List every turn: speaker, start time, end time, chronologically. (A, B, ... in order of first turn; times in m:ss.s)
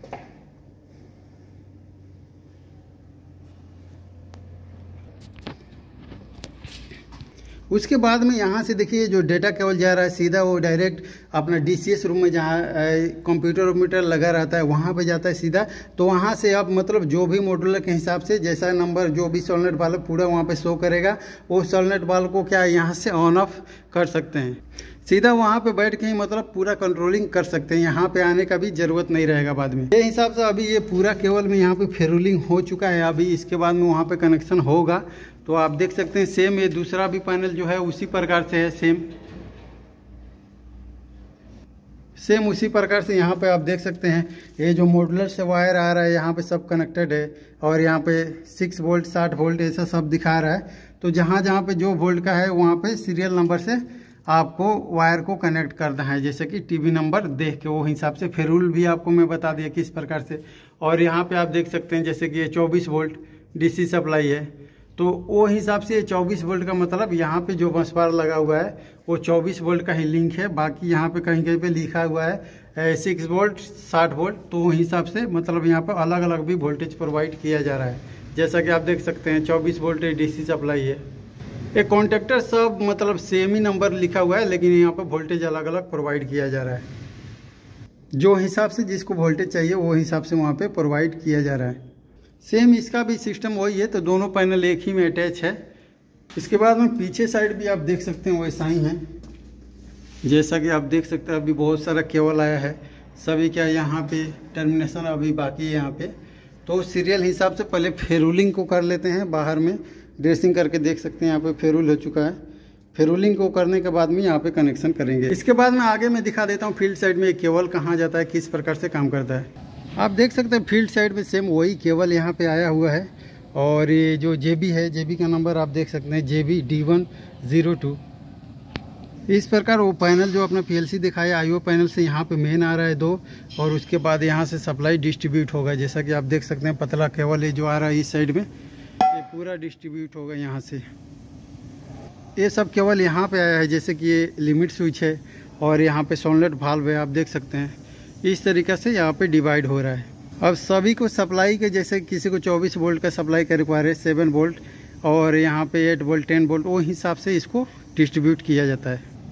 0:07.7-0:39.1 A
0:42.2-1:21.0 A
1:21.8-1:26.9 A
1:28.2-1:31.8 A
1:32.4-1:35.6 A
1:36.4-1:39.0 A
1:40.2-1:46.1 A
1:46.7-1:52.4 A
1:53.0-2:08.0 A
2:09.3-2:18.5 A
2:19.1-2:20.8 A
2:22.4-2:39.0 A